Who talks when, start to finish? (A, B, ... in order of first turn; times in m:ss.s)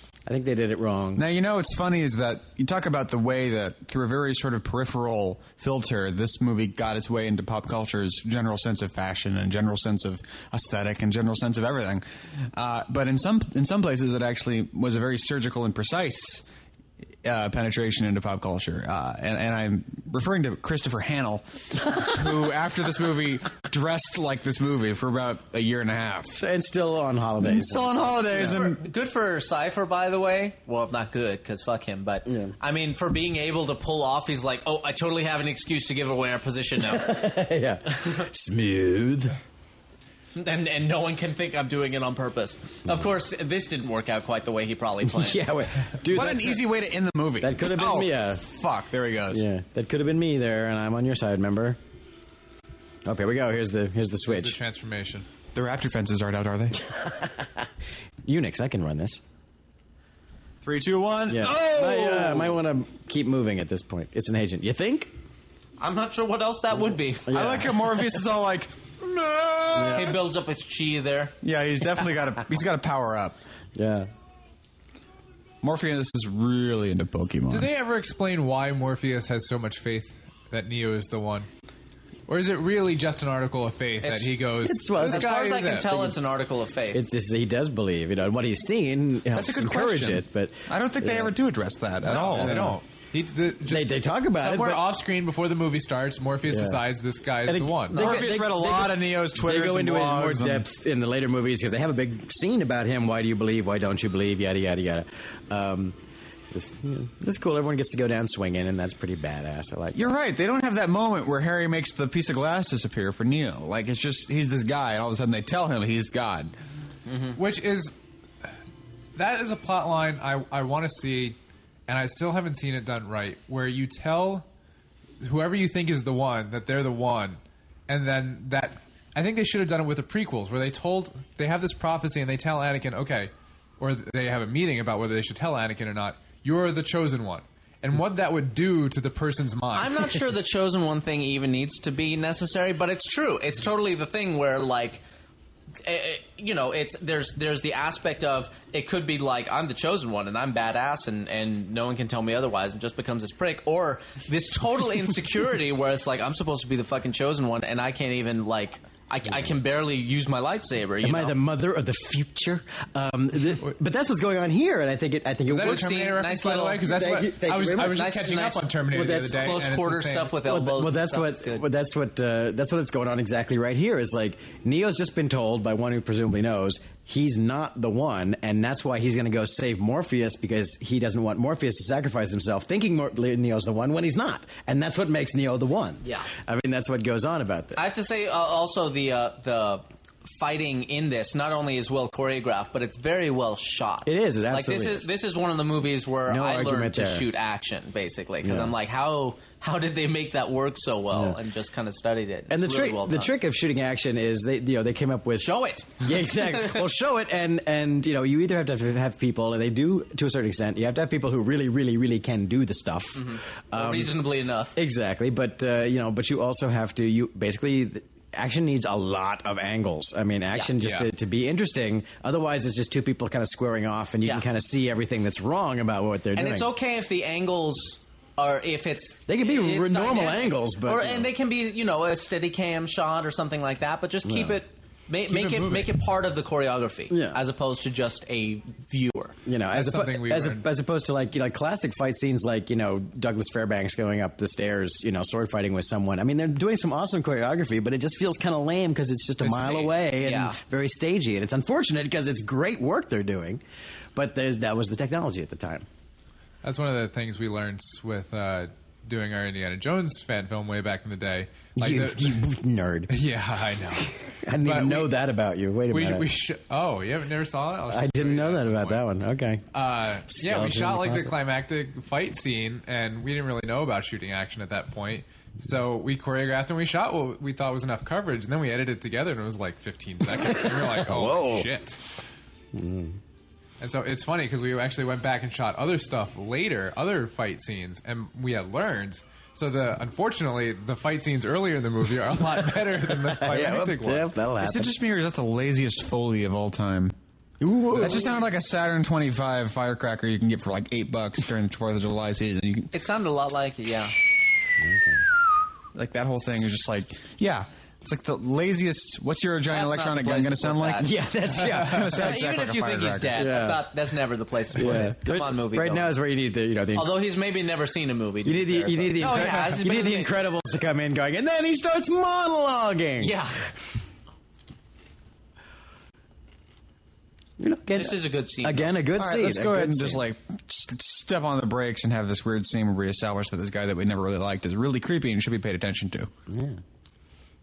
0:00.3-0:01.2 A
0:01.2-0:16.5 B
0:17.2-0:26.4 B
0:26.4-0:28.6 A
0:27.4-0:28.8 B
0:28.3-0:37.3 C
0:32.3-0:32.5 A
0:36.8-0:39.4 A
0:40.4-0:45.4 C
0:45.0-0:46.7 A
0:46.1-0:49.4 B
0:47.4-0:48.4 A
0:49.3-0:51.8 A
0:53.0-0:54.6 A
0:54.3-0:55.3 D
0:55.5-0:56.8 B
0:58.2-0:59.2 A
1:00.6-1:02.6 B
1:01.3-1:05.1 A
1:05.8-1:07.3 C
1:07.3-1:07.9 A
1:07.3-1:10.2 B
1:09.7-1:10.2 A
1:09.8-1:11.3 C
1:11.4-1:13.4 B
1:13.8-1:14.1 A
1:15.6-1:17.7 B
1:17.5-1:21.5 D
1:22.3-1:26.0 D
1:24.0-1:24.3 C
1:24.6-1:26.2 A
1:25.1-1:27.1 C
1:26.9-1:31.4 A
1:29.3-1:32.8 B
1:32.0-1:38.0 D
1:32.3-1:32.8 A
1:33.6-1:34.9 A
1:36.5-1:36.8 A
1:37.4-1:46.0 A
1:37.9-1:38.3 C
1:37.9-1:40.6 B
1:46.5-1:50.1 A
1:49.9-1:56.5 B
1:57.1-1:57.4 C
1:57.4-1:57.9 D
1:59.2-2:01.4 D
2:01.9-2:04.5 D
2:05.2-2:20.1 D
2:19.8-2:25.0 C
2:25.8-2:41.4 C
2:41.0-2:45.9 A
2:45.5-2:50.4 D
2:45.6-2:46.9 C
2:46.8-2:48.2 A
2:47.8-2:48.7 C
2:48.9-2:49.5 A
2:49.2-2:51.6 C
2:50.4-3:07.8 A
3:06.0-3:06.3 C
3:07.8-3:23.3 C
3:14.0-3:15.1 A
3:16.3-3:17.3 A
3:18.4-3:18.7 A
3:21.1-3:21.4 A
3:22.5-3:34.2 A
3:25.4-3:26.8 C
3:33.2-3:34.8 C
3:34.8-3:46.7 A
3:46.4-3:59.4 C
3:49.3-3:51.3 A
3:54.2-3:54.6 A
3:55.3-3:55.9 D
3:57.1-3:57.4 A
3:59.4-4:13.6 A
3:59.7-4:00.7 D
4:09.4-4:10.0 D
4:10.2-4:10.6 C
4:14.2-4:15.9 A
4:16.6-4:22.4 D
4:21.8-4:23.1 A
4:23.1-4:25.1 D
4:24.2-4:26.3 A
4:25.9-4:29.0 D
4:27.9-4:29.6 A
4:29.7-4:42.0 D
4:30.3-4:31.3 A
4:40.3-4:41.7 A
4:42.7-4:43.2 A
4:43.8-4:54.3 D
4:53.2-4:55.0 A
4:54.6-4:57.2 B
4:57.6-4:58.3 A
4:58.0-5:02.9 B
5:02.9-5:04.1 C
5:04.8-5:05.2 A
5:06.0-5:11.1 B
5:09.7-5:11.1 C
5:11.0-5:12.2 A
5:11.6-5:13.4 B
5:12.1-5:16.1 C
5:13.4-5:13.8 A
5:14.7-5:17.2 A
5:16.9-5:20.5 C
5:18.4-5:23.3 A
5:19.3-5:19.8 D
5:23.2-5:23.7 C
5:27.6-5:30.2 A
5:28.0-5:29.0 C
5:29.2-5:36.3 B
5:36.5-5:36.8 A